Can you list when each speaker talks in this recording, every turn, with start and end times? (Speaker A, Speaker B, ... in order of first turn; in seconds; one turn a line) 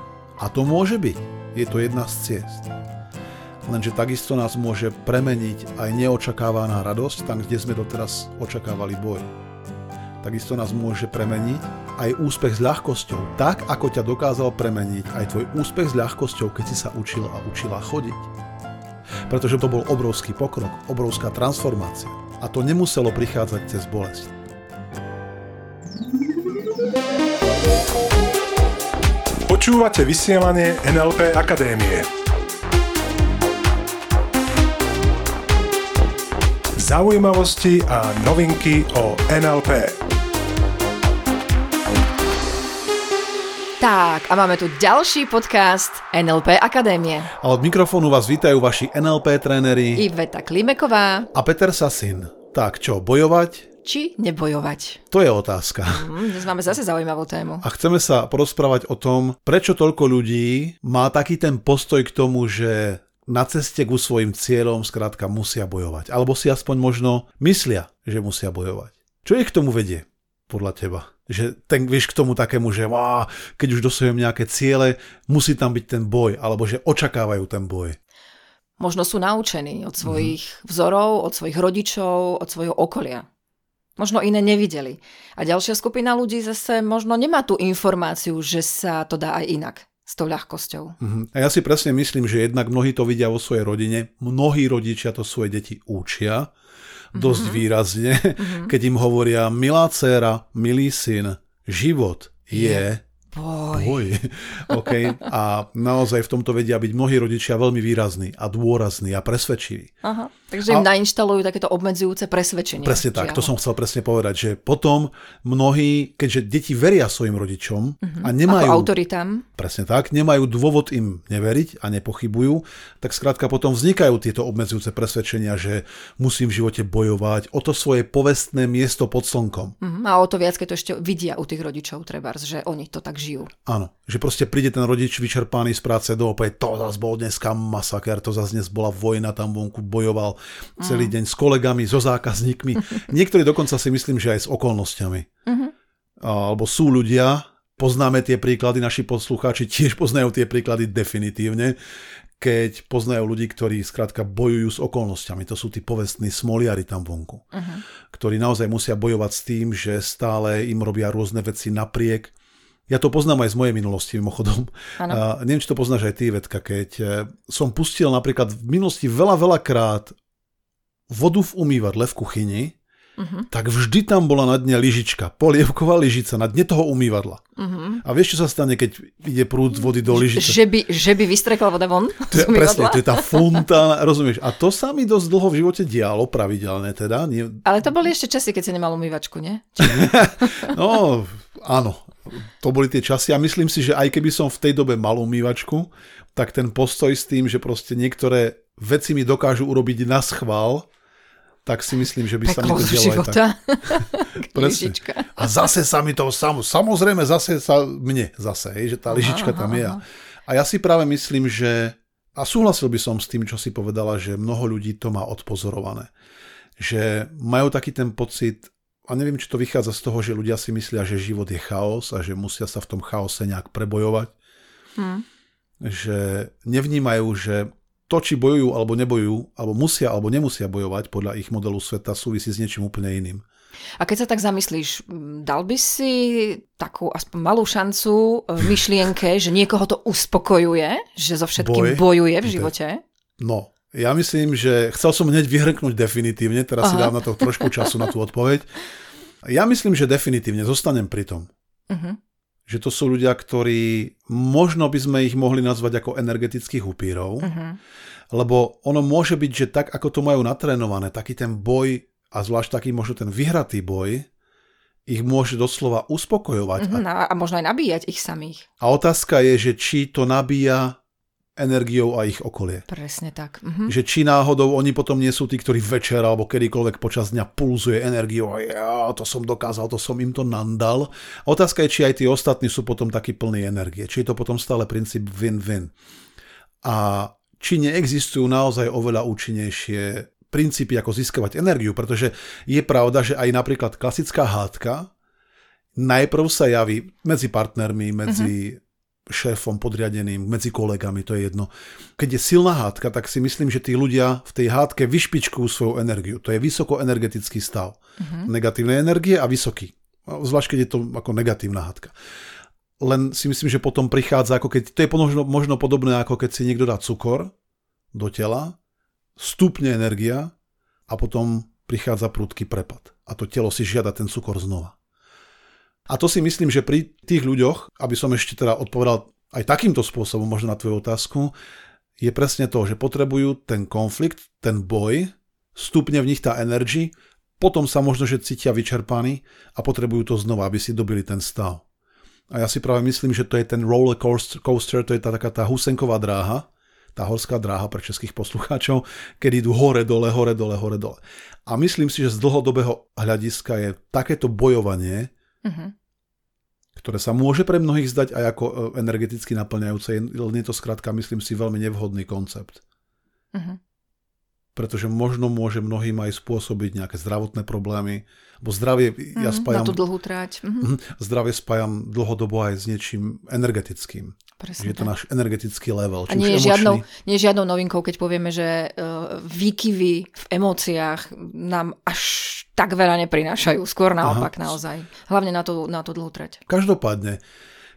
Speaker A: 0.4-2.7
Speaker A: 3.7-9.3
Speaker A: 10.2-18.3
Speaker A: 19.3-24.3
Speaker B: 29.5-32.1
Speaker B: 36.8-40.0
Speaker C: 43.8-47.3
Speaker A: 47.4-50.1
Speaker C: 50.0-51.3
Speaker A: 51.3-53.7
Speaker C: 53.8-55.0
Speaker A: 55.1-56.1
Speaker C: 55.9-57.6
Speaker A: 57.6-78.0
Speaker C: 78.8-83.3
Speaker A: 80.0-80.3
Speaker C: 84.0-91.0
Speaker A: 91.0-96.5
Speaker A: 97.1-103.0
Speaker C: 97.1-97.7
Speaker C: 98.4-98.7
Speaker C: 102.5-104.1
Speaker A: 103.7-109.9
Speaker C: 104.7-105.1
Speaker C: 110.0-113.5
Speaker A: 112.8-118.9
Speaker C: 118.0-119.5
Speaker A: 119.5-129.8
Speaker C: 129.8-133.5
Speaker A: 133.7-145.3
Speaker C: 140.8-141.1
Speaker C: 145.5-145.7
Speaker A: 146.2-151.8
Speaker A: 152.4-157.4
Speaker C: 157.5-157.8
Speaker A: 158.1-162.3
Speaker A: 162.9-170.2
Speaker A: 171.1-172.8
Speaker C: 173.2-173.5
Speaker A: 173.5-177.4
Speaker C: 177.6-178.0
Speaker A: 178.0-180.6
Speaker C: 179.8-183.7
Speaker A: 182.3-187.7
Speaker C: 187.7-190.7
Speaker A: 189.8-200.9
Speaker A: 201.7-216.1
Speaker C: 202.4-205.7
Speaker C: 209.1-210.0
Speaker A: 216.8-224.3
Speaker C: 225.0-225.2
Speaker A: 225.8-233.4
Speaker C: 234.0-243.0
Speaker A: 241.6-242.7
Speaker A: 243.4-248.8
Speaker C: 246.8-248.1
Speaker A: 249.4-251.5
Speaker C: 251.9-252.2
Speaker A: 252.7-257.5
Speaker C: 257.4-257.8
Speaker A: 258.3-264.3
Speaker A: 265.1-267.0
Speaker C: 266.8-268.6
Speaker A: 268.8-271.0
Speaker A: 271.6-272.9
Speaker C: 272.9-273.9
Speaker A: 273.9-285.9
Speaker A: 286.8-295.1
Speaker A: 295.9-312.1
Speaker C: 298.3-298.5
Speaker C: 308.2-308.5
Speaker A: 313.0-317.5
Speaker A: 318.1-318.8
Speaker A: 319.4-320.5
Speaker A: 321.1-324.9
Speaker A: 326.1-331.5
Speaker A: 332.2-341.8
Speaker A: 342.5-355.3
Speaker C: 355.6-355.9
Speaker A: 357.0-362.8
Speaker C: 363.5-363.8
Speaker A: 364.8-370.0
Speaker C: 369.4-370.9
Speaker A: 370.8-377.1
Speaker C: 374.6-375.1
Speaker C: 376.3-386.6
Speaker A: 384.2-384.7
Speaker A: 386.7-387.4